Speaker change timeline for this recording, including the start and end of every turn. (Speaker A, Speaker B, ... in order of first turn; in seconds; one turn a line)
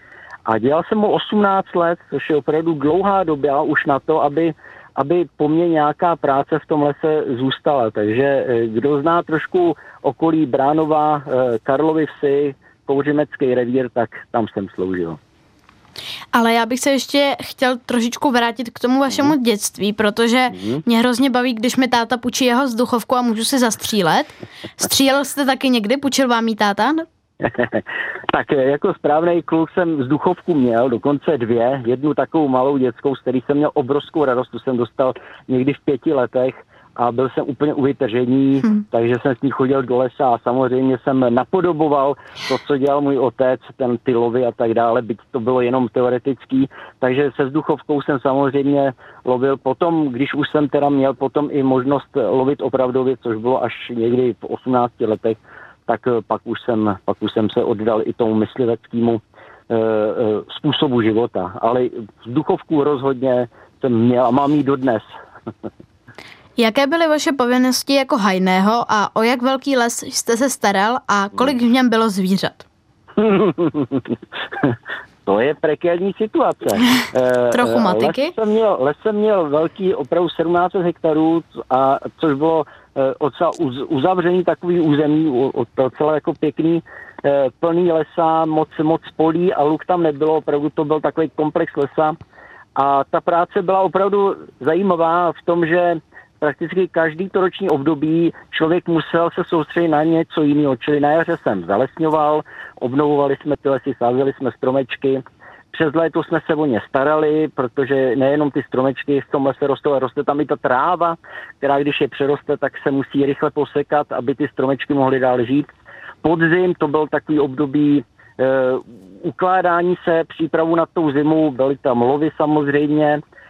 Speaker A: 0.5-15.2
Speaker B: 16.3-27.1
Speaker A: 20.5-20.8
Speaker A: 27.4-65.1
Speaker B: 66.6-72.7
Speaker A: 73.2-92.2
Speaker B: 77.5-78.3
Speaker A: 92.8-115.7
Speaker A: 116.2-123.2